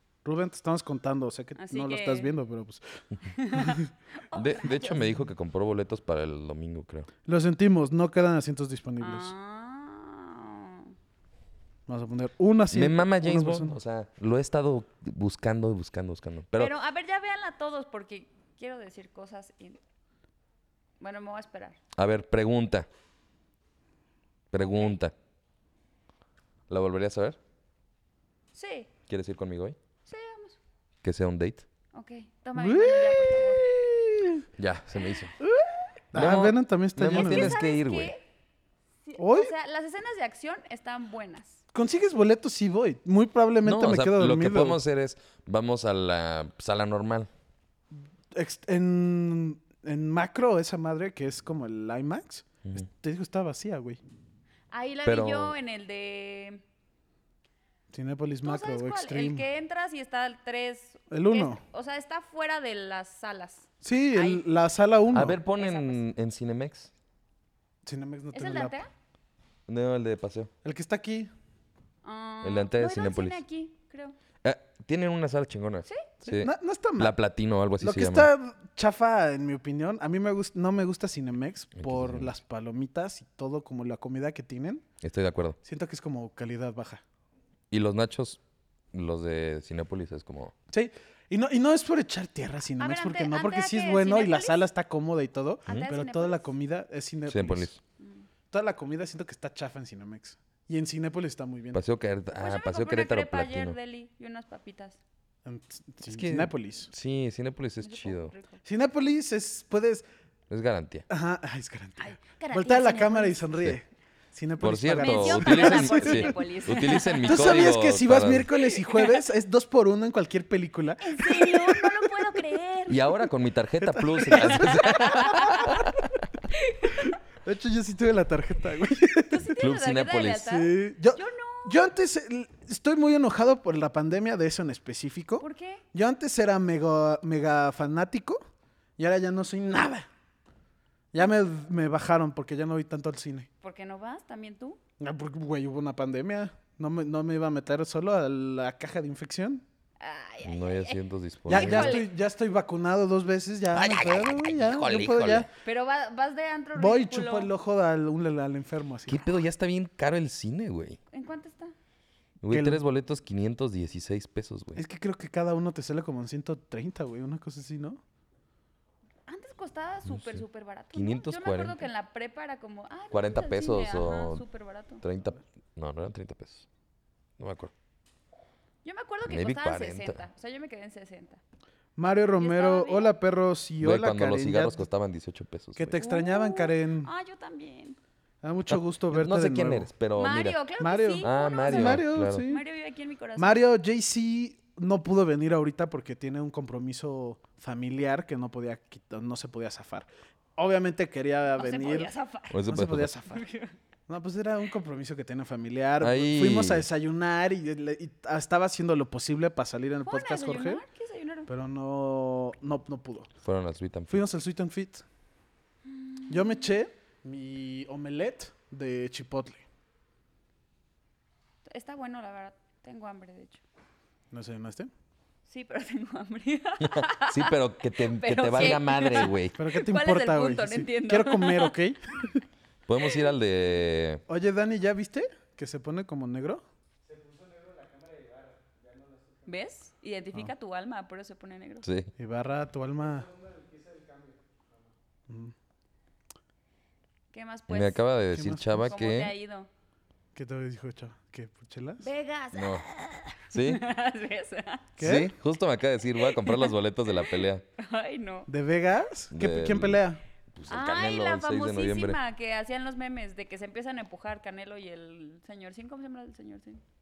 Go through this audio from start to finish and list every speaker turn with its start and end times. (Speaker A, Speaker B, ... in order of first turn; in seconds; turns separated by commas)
Speaker A: 0.2-3.9, Speaker B: 1.6-2.3, Speaker B: 3.2-5.1, Speaker C: 4.3-7.1, Speaker A: 7.2-9.3, Speaker B: 9.0-10.9, Speaker A: 11.9-13.8, Speaker C: 12.7-16.7, Speaker B: 16.6-19.8, Speaker B: 21.0-21.8, Speaker C: 22.0-22.9, Speaker C: 24.5-25.1, Speaker B: 24.6-24.9, Speaker C: 26.7-27.4, Speaker B: 28.5-28.9, Speaker C: 29.1-29.8, Speaker B: 30.1-30.6, Speaker C: 31.0-31.6, Speaker B: 31.9-33.6, Speaker A: 32.6-34.5, Speaker C: 34.6-35.4, Speaker A: 35.4-37.6, Speaker C: 36.1-38.1, Speaker B: 37.1-38.2, Speaker B: 39.0-41.6, Speaker A: 39.2-39.5, Speaker A: 41.7-44.8, Speaker C: 43.6-47.3, Speaker A: 48.3-54.0, Speaker B: 54.7-56.6, Speaker C: 55.0-55.6, Speaker A: 57.9-59.5, Speaker B: 58.4-64.5, Speaker A: 61.1-61.6, Speaker A: 63.8-65.4, Speaker C: 65.1-66.9, Speaker B: 65.5-66.0, Speaker A: 67.9-68.8, Speaker B: 68.3-68.9, Speaker C: 69.7-70.5, Speaker A: 70.6-71.3, Speaker B: 72.0-74.2, Speaker C: 72.4-73.4, Speaker C: 74.4-78.3, Speaker A: 76.2-77.2, Speaker A: 77.8-84.8, Speaker C: 81.8-82.3, Speaker C: 85.0-85.6, Speaker A: 85.6-87.0, Speaker C: 87.7-88.4, Speaker C: 88.9-90.5, Speaker A: 90.7-97.7, Speaker B: 92.8-94.6, Speaker B: 95.7-96.5, Speaker C: 97.3-97.8, Speaker B: 98.0-98.3, Speaker A: 98.5-101.8, Speaker C: 101.7-103.8, Speaker B: 102.4-105.0, Speaker A: 105.5-106.9, Speaker C: 106.1-108.3, Speaker B: 107.8-108.6, Speaker A: 108.7-110.0, Speaker C: 110.5-111.1, Speaker A: 111.1-122.3, Speaker B: 112.0-113.4, Speaker C: 114.6-118.5, Speaker B: 115.0-117.8, Speaker B: 118.6-119.2, Speaker B: 121.0-123.2, Speaker C: 122.9-126.0, Speaker A: 123.8-125.8, Speaker B: 124.3-125.9, Speaker B: 126.5-127.2, Speaker A: 126.9-129.5, Speaker B: 129.3-131.9, Speaker C: 129.6-130.5, Speaker A: 130.5-138.4, Speaker B: 135.4-135.8, Speaker A: 139.0-140.1, Speaker A: 141.1-143.5, Speaker B: 143.6-144.8, Speaker A: 145.0-149.6, Speaker B: 150.0-152.1, Speaker C: 150.4-152.1, Speaker A: 151.5-155.5, Speaker C: 153.7-155.5, Speaker B: 155.6-157.5, Speaker A: 156.8-159.3, Speaker C: 159.1-161.0, Speaker B: 161.1-161.8, Speaker C: 162.4-164.8, Speaker A: 162.5-162.8, Speaker A: 164.8-168.0, Speaker B: 169.3-175.0, Speaker C: 170.1-171.9, Speaker C: 173.1-174.4, Speaker C: 175.0-176.7, Speaker C: 177.4-177.7, Speaker B: 178.8-181.4, Speaker C: 179.2-180.2, Speaker A: 182.0-184.8, Speaker B: 182.4-183.1, Speaker C: 183.8-186.0, Speaker A: 185.8-187.1, Speaker B: 186.0-188.0, Speaker A: 188.4-189.9, Speaker C: 188.7-190.6, Speaker B: 190.2-193.6, Speaker A: 190.8-192.6, Speaker C: 191.2-192.4, Speaker A: 193.4-202.1, Speaker B: 201.6-202.6, Speaker C: 202.5-203.1, Speaker A: 202.7-203.5, Speaker B: 203.3-203.8, Speaker A: 204.1-210.8, Speaker C: 206.0-206.9, Speaker B: 210.1-211.5, Speaker A: 211.5-213.3, Speaker C: 213.4-214.2, Speaker A: 214.1-215.0, Speaker B: 215.8-216.7, Speaker A: 216.3-219.6, Speaker B: 221.7-223.6, Speaker A: 224.3-224.9, Speaker B: 225.5-231.8, Speaker C: 226.8-229.6, Speaker A: 228.5-232.4, Speaker C: 232.9-234.2, Speaker A: 234.3-236.6, Speaker B: 239.5-241.9, Speaker C: 241.8-242.1, Speaker A: 242.2-243.3, Speaker B: 247.3-248.0, Speaker C: 247.7-249.3, Speaker A: 248.3-248.9, Speaker B: 248.8-249.7, Speaker A: 250.3-252.1, Speaker B: 252.0-254.9, Speaker C: 252.5-252.9, Speaker C: 253.5-253.8, Speaker A: 255.0-255.3, Speaker C: 255.0-257.6, Speaker B: 256.2-258.5, Speaker A: 258.5-260.2, Speaker C: 259.3-262.2, Speaker B: 260.7-266.8